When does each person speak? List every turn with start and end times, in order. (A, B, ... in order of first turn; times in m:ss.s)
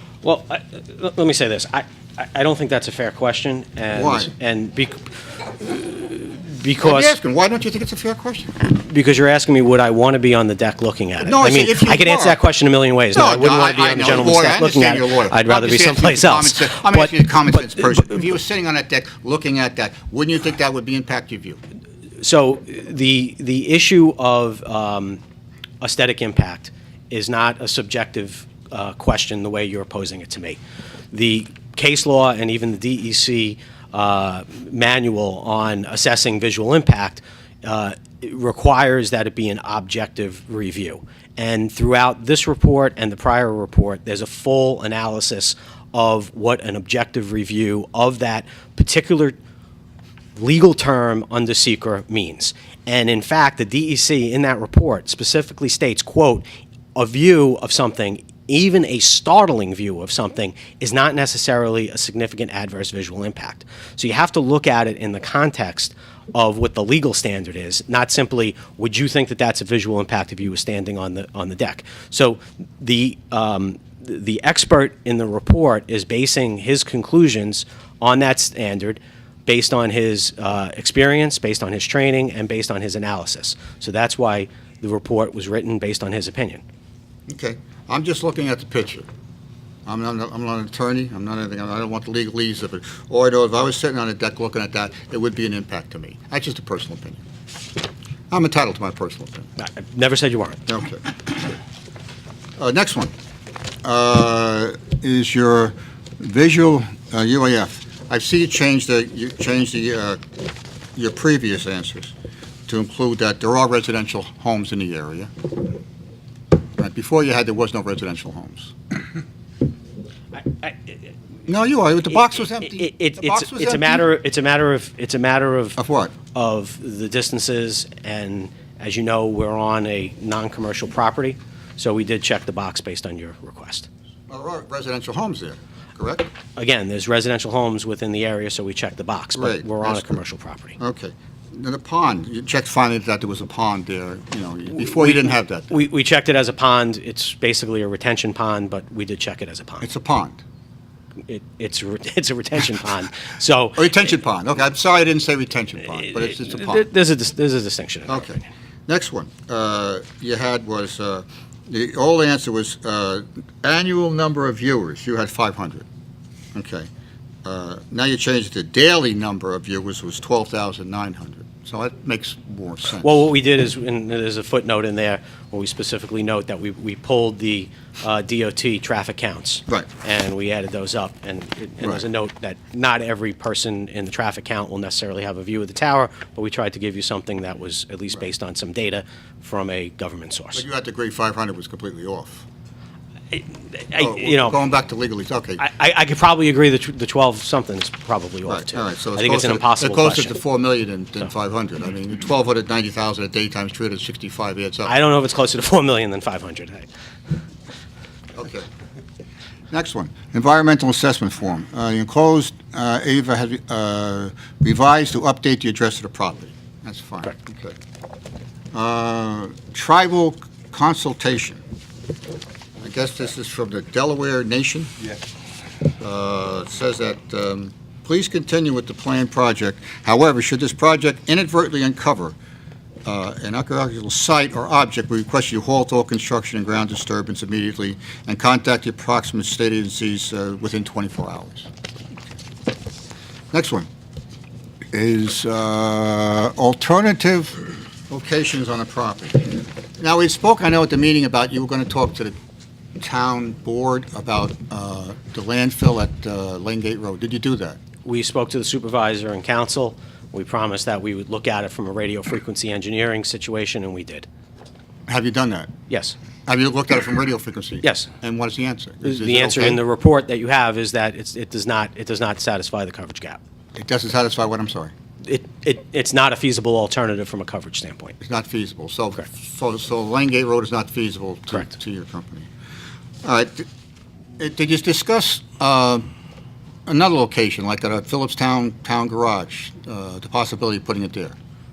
0:00.2-0:07.1 A
0:03.9-0:04.3 B
0:06.8-0:08.6 B
0:08.6-0:17.1 A
0:11.2-0:12.4 B
0:13.1-0:21.6 B
0:22.2-0:25.2 A
0:25.8-0:30.6 A
0:31.1-0:49.4 A
0:50.4-1:26.6 A
1:27.3-1:29.1 B
1:29.9-1:37.2 B
1:38.3-1:39.5 B
1:39.6-1:40.6 A
1:40.7-1:41.3 B
1:42.6-1:43.1 B
1:43.8-1:50.2 B
1:51.0-1:52.1 B
1:52.7-1:55.3 B
1:56.8-1:59.0 B
2:00.4-2:00.8 A
2:01.5-2:04.1 B
2:02.1-2:05.8 A
2:05.8-2:06.1 B
2:06.3-2:13.9 A
2:14.3-2:16.3 B
2:16.6-2:20.8 A
2:19.4-2:20.2 B
2:20.8-2:25.7 B
2:24.8-2:29.9 A
2:29.8-2:30.4 B
2:31.3-2:34.0 A
2:33.8-2:36.8 B
2:36.1-2:38.4 A
2:38.1-2:45.9 B
2:46.6-2:46.9 B
2:47.4-2:53.3 B
2:53.0-3:10.6 A
3:10.6-3:12.5 B
3:13.3-3:14.6 A
3:14.0-3:15.7 B
3:15.6-3:20.4 A
3:18.5-3:24.9 B
3:24.9-3:26.9 A
3:28.4-3:28.7 B
3:29.7-3:37.8 B
3:38.7-3:41.6 B
3:42.8-3:44.9 B
3:46.0-3:52.4 B
3:53.0-4:01.7 B
4:03.5-4:03.9 B
4:04.9-4:12.4 B
4:13.0-4:17.8 B
4:18.0-4:24.3 A
4:25.1-4:25.7 B
4:25.9-4:26.2 A
4:26.5-4:29.8 B
4:27.8-4:28.1 A
4:29.0-4:33.4 A
4:33.8-4:34.9 B
4:35.2-4:38.2 A
4:38.2-4:42.5 B
4:43.2-4:43.7 B
4:44.4-4:46.1 B
4:46.9-4:51.4 B